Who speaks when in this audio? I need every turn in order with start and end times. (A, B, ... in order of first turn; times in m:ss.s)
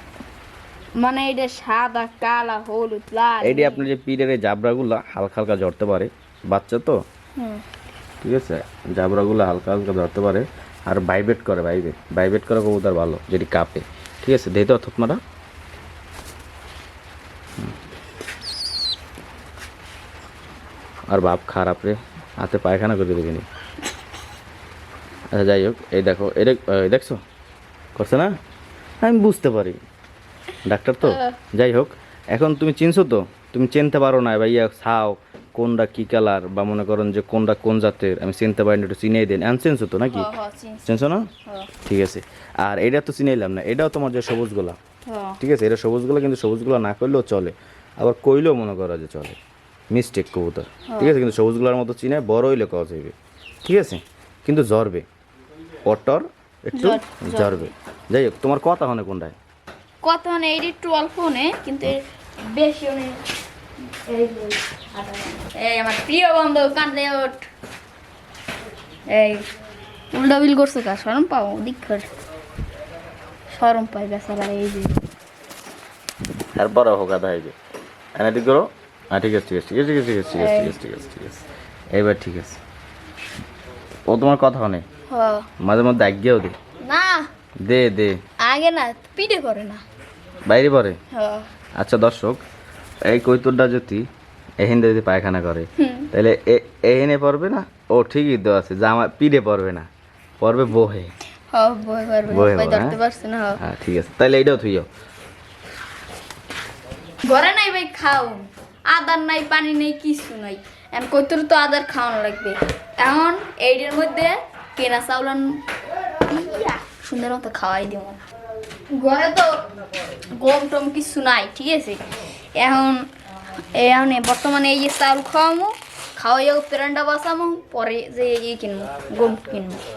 0:01.0-0:03.9 A
0:03.4-0:07.0 B
0:07.4-0:07.6 A
0:08.2-0:15.2 B
0:21.1-0:23.4 B
0:25.3-0:27.2 B
0:27.9-0:28.3 B
0:29.0-0:29.8 B
0:30.6-0:40.3 B
0:31.0-0:31.4 A
0:40.1-0:40.8 A
0:40.8-0:41.3 B
0:41.8-0:44.8 B
0:45.1-0:45.4 A
0:45.4-0:49.4 B
0:49.9-0:55.0 B
0:50.9-0:51.2 A
0:55.8-0:59.4 B
0:56.7-0:57.7 A
1:00.0-1:03.2 A
1:03.9-1:07.5 A
1:09.1-1:09.5 A
1:10.1-1:12.1 A
1:13.5-1:15.0 A
1:16.6-1:17.6 B
1:18.2-1:22.6 B
1:20.4-1:20.8 A
1:24.1-1:24.8 B
1:25.1-1:25.5 A
1:25.6-1:26.6 B
1:26.8-1:27.3 A
1:27.6-1:28.2 B
1:28.4-1:29.8 A
1:30.5-1:31.0 B
1:31.1-1:31.5 A
1:31.8-1:32.4 B
1:33.1-1:34.0 B
1:34.6-1:39.9 B
1:35.8-1:36.1 A
1:40.4-1:41.1 B
1:41.5-1:43.6 A
1:42.3-1:43.0 B
1:43.6-1:44.9 B
1:47.2-1:55.6 A
1:56.2-1:58.2 A
1:58.9-1:59.7 A
2:00.4-2:02.0 A
2:02.5-2:03.1 A
2:03.7-2:09.8 A